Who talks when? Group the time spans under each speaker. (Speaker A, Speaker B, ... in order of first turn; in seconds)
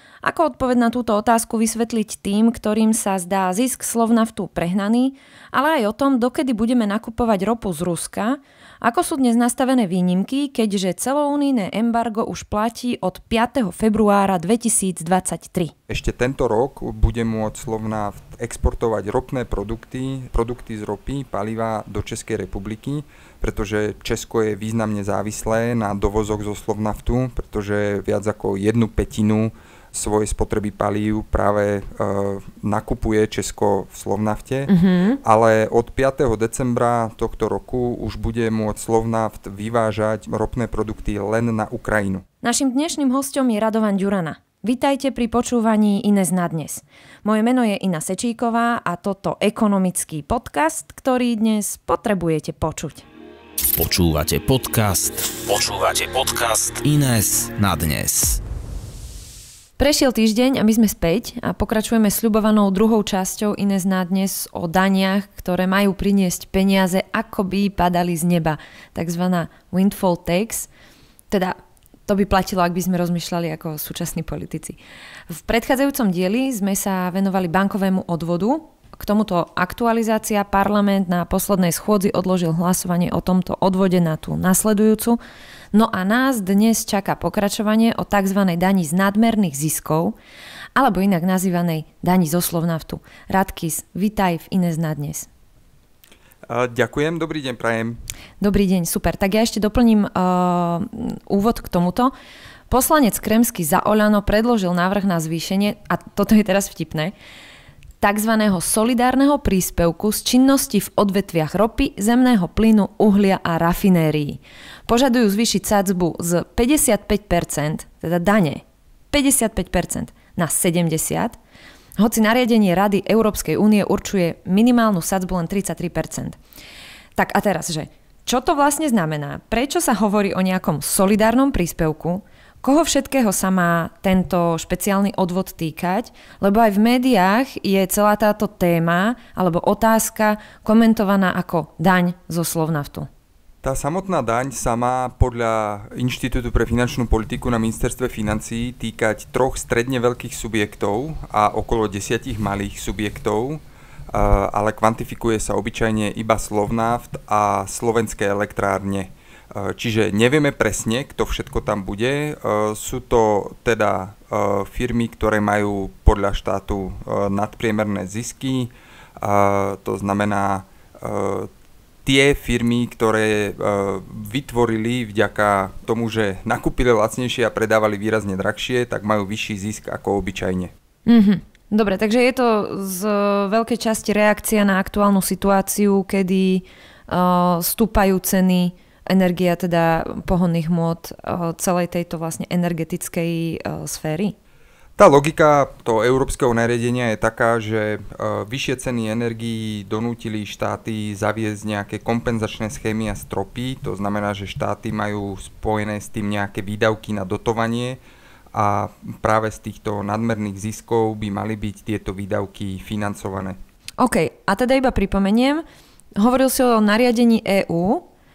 Speaker A: 0.2-15.7, 34.7-35.2, 42.4-53.0, 59.8-70.7, 71.3-74.8, 75.3-85.2, 85.7-90.2, 90.8-95.3, 98.4-102.1, 102.7-107.1, 108.0-121.4, 122.0-126.4, 127.2-143.1, 181.1-194.3, 214.0-215.6, 216.2-218.1
Speaker B: 15.9-34.7, 35.2-42.2, 96.5-98.0, 143.6-171.5, 172.0-180.7, 195.0-208.0, 208.5-213.6
Speaker C: 53.7-58.4